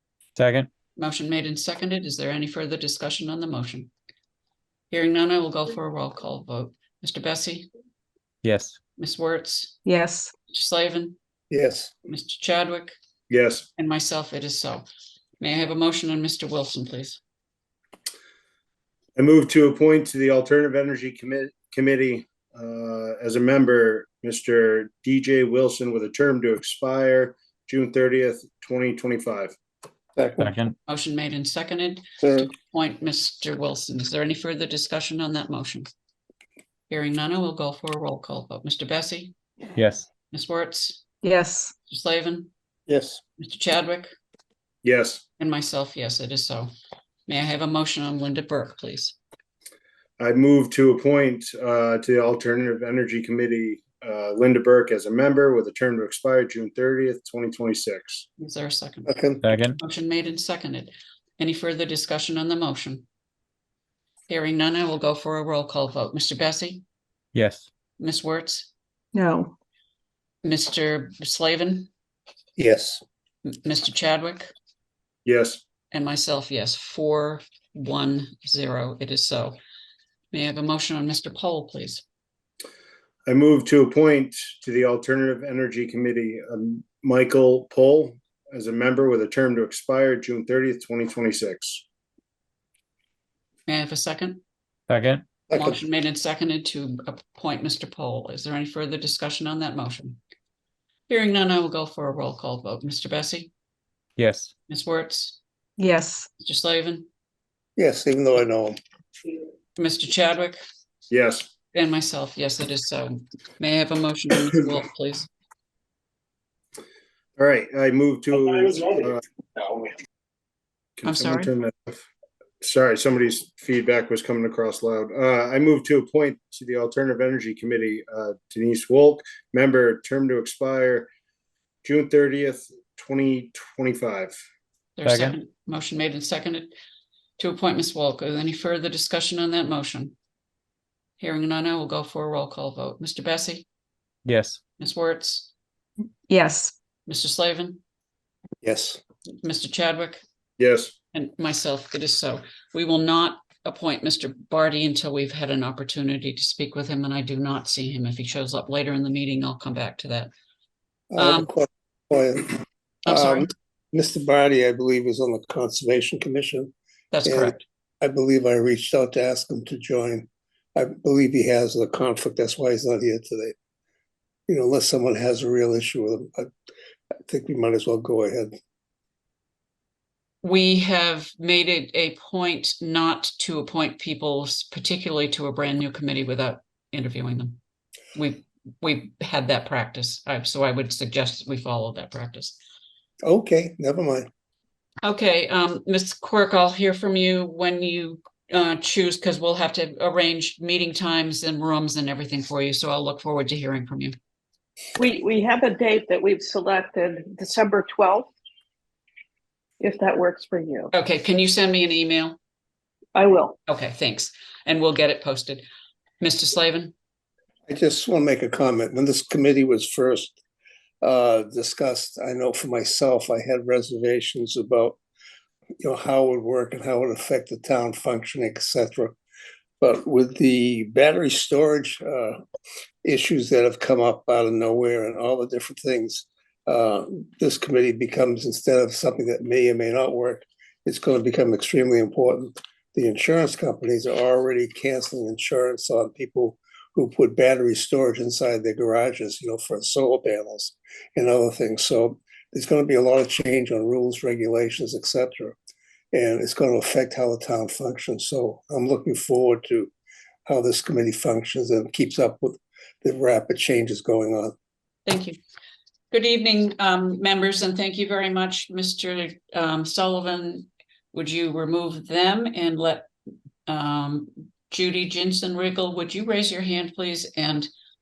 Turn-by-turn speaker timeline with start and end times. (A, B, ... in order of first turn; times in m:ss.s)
0:00.4-0:00.7 A
0:01.0-0:03.9 B
0:04.9-0:07.7 B
0:08.4-0:08.8 A
0:09.0-0:09.8 B
0:09.8-0:10.3 C
0:10.5-0:11.2 B
0:11.5-0:11.9 D
0:12.1-0:12.9 B
0:13.3-0:13.7 E
0:13.8-0:14.8 B
0:15.4-0:17.2 B
0:19.2-0:29.5 E
0:30.2-0:30.5 D
0:30.4-0:30.7 A
0:30.9-0:35.9 B
0:32.2-0:32.5 D
0:36.9-0:39.3 B
0:39.8-0:40.1 A
0:40.3-0:41.0 B
0:41.2-0:41.7 C
0:41.9-0:42.5 B
0:42.9-0:43.2 D
0:43.4-0:44.1 B
0:44.8-0:45.2 E
0:45.4-0:46.7 B
0:47.3-0:49.2 B
0:50.2-0:58.2 E
0:58.4-0:59.2 B
0:59.0-0:59.4 D
0:59.4-0:59.8 A
0:59.8-1:03.0 B
1:04.3-1:06.8 B
1:07.3-1:07.6 A
1:08.0-1:08.7 B
1:09.1-1:09.5 C
1:10.4-1:11.9 B
1:12.6-1:13.0 D
1:13.4-1:14.5 B
1:15.2-1:15.6 E
1:15.9-1:19.6 B
1:20.3-1:22.0 B
1:23.3-1:31.8 E
1:33.7-1:34.4 B
1:34.9-1:35.3 A
1:35.5-1:35.8 D
1:35.5-1:40.2 B
1:41.1-1:43.5 B
1:44.2-1:44.5 A
1:44.7-1:45.4 B
1:45.8-1:46.3 C
1:46.4-1:47.1 B
1:47.8-1:48.8 D
1:49.8-1:50.6 B
1:51.1-1:51.5 E
1:51.7-1:55.3 B
1:57.4-1:59.2 E
2:01.0-2:02.0 E
2:01.0-2:01.5 B
2:02.6-2:11.1 E
2:11.8-2:14.4 E
2:15.0-2:16.7 B
2:15.0-2:15.4 A
2:17.4-2:20.1 B
2:21.2-2:23.6 B
2:24.2-2:24.6 A
2:24.8-2:25.5 B
2:26.3-2:26.7 C
2:27.1-2:27.8 B
2:28.6-2:29.0 D
2:29.4-2:30.2 B
2:30.6-2:30.9 E
2:31.1-2:40.3 B
2:41.1-2:46.7 D
2:41.2-2:41.5 B
2:43.0-2:43.5 B
2:47.1-2:47.6 B
2:47.2-2:53.5 D
2:54.5-2:56.5 D
2:57.2-2:58.6 D
3:00.4-3:07.6 B
3:08.1-3:12.6 B
3:13.2-3:14.3 D
3:15.0-3:24.1 B
3:25.0-3:28.3 F
3:29.8-3:30.9 F
3:30.9-3:32.4 B
3:33.1-3:33.6 F
3:33.7-3:35.6 B
3:36.2-3:36.9 B
3:37.7-3:40.4 D
3:41.0-3:45.0 D
3:45.8-3:49.1 D
3:49.8-3:52.4 D
3:53.0-4:15.6 D
4:16.1-4:19.9 D
4:20.5-4:24.5 D
4:25.0-4:25.4 B
4:26.1-4:33.1 B
4:33.7-4:37.7 B